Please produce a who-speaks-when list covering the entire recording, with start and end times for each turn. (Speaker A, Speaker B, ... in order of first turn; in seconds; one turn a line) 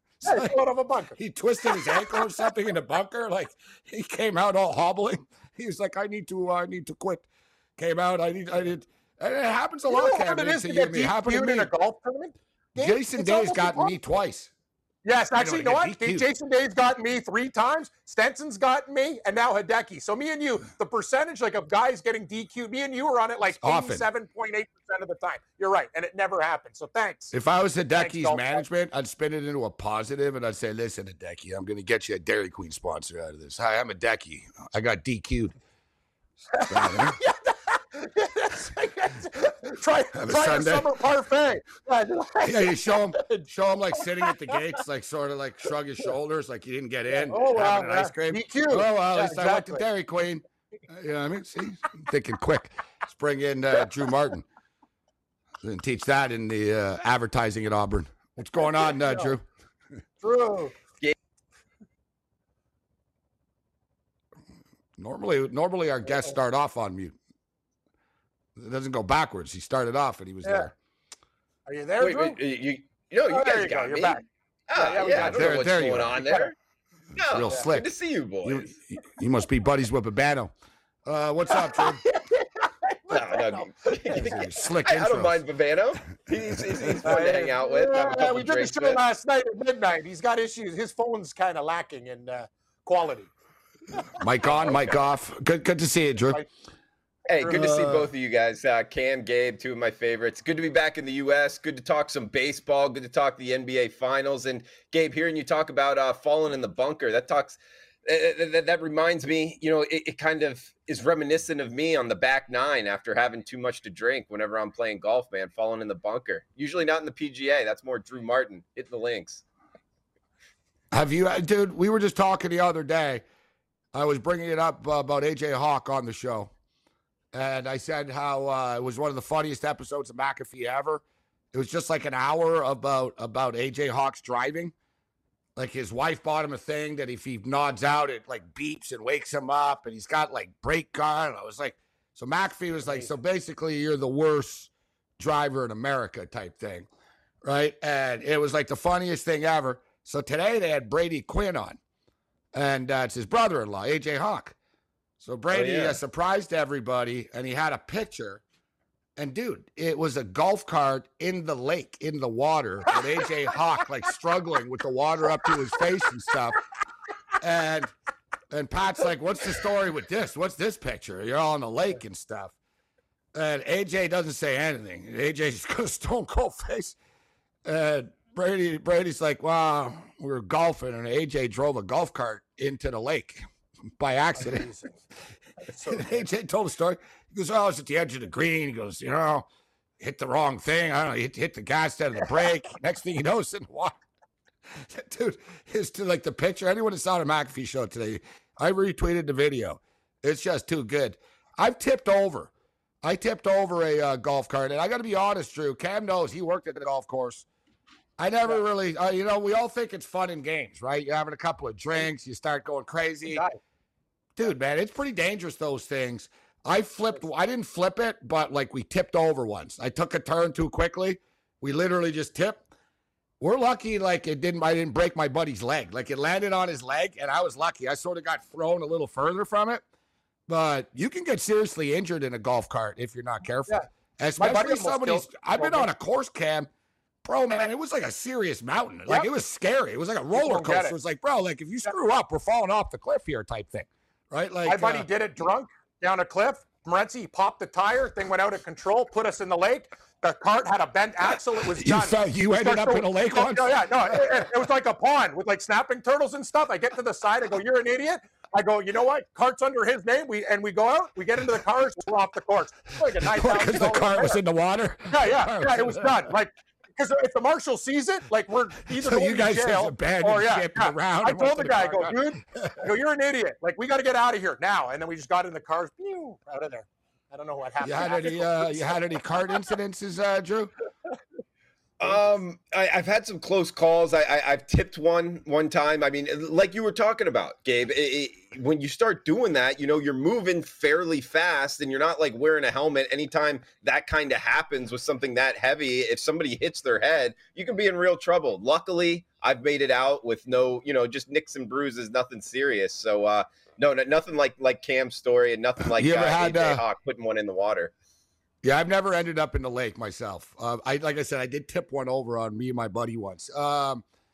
Speaker A: 0.2-0.6
Speaker B: 0.2-2.5
Speaker A: 1.2-11.7
Speaker B: 9.9-14.1
Speaker A: 12.8-14.5
Speaker B: 15.0-27.4
Speaker A: 15.4-16.3
Speaker A: 23.6-24.1
Speaker A: 27.3-35.5
Speaker B: 27.9-28.6
Speaker B: 36.5-44.8
Speaker A: 36.7-37.2
Speaker A: 40.1-41.0
Speaker A: 42.4-54.5
Speaker B: 47.1-49.9
Speaker A: 55.6-59.5
Speaker B: 58.8-59.4
Speaker B: 60.2-60.8
Speaker A: 65.0-67.2
Speaker B: 66.1-66.3
Speaker A: 68.6-70.7
Speaker B: 70.4-70.7
Speaker B: 71.7-72.4
Speaker C: 72.0-76.5
Speaker B: 73.3-74.2
Speaker B: 74.8-76.5
Speaker A: 75.1-76.2
Speaker A: 77.2-77.9
Speaker C: 77.2-78.7
Speaker A: 78.4-80.5
Speaker A: 81.1-82.0
Speaker B: 81.5-84.2
Speaker C: 83.1-89.0
Speaker A: 84.1-85.4
Speaker B: 87.0-93.3
Speaker B: 93.9-94.9
Speaker A: 94.2-96.4
Speaker C: 97.3-119.4
Speaker B: 97.4-97.9
Speaker A: 97.5-98.1
Speaker A: 120.9-123.2
Speaker A: 123.9-126.5
Speaker A: 127.3-134.7
Speaker A: 135.6-146.9
Speaker B: 142.8-143.1
Speaker A: 147.4-151.8
Speaker A: 152.5-154.6
Speaker A: 155.2-158.4
Speaker C: 155.5-156.0
Speaker A: 159.2-166.6
Speaker A: 167.4-167.9
Speaker A: 168.5-172.6
Speaker A: 173.3-177.0
Speaker A: 177.7-183.4
Speaker A: 184.0-184.7
Speaker B: 184.4-185.0
Speaker B: 185.6-186.3
Speaker A: 185.9-189.5
Speaker A: 190.0-193.9
Speaker A: 194.8-202.5
Speaker A: 203.0-207.5
Speaker A: 208.2-213.4
Speaker B: 213.3-213.6
Speaker A: 214.4-222.7
Speaker A: 223.4-229.8
Speaker A: 230.5-236.7
Speaker B: 234.4-235.9
Speaker A: 237.2-245.1
Speaker B: 240.3-240.9
Speaker B: 244.7-264.4
Speaker A: 251.6-254.5
Speaker A: 263.2-266.3
Speaker B: 265.1-279.7
Speaker A: 268.9-272.9
Speaker A: 277.8-280.7
Speaker C: 282.0-307.9
Speaker A: 305.9-306.8
Speaker A: 308.6-314.0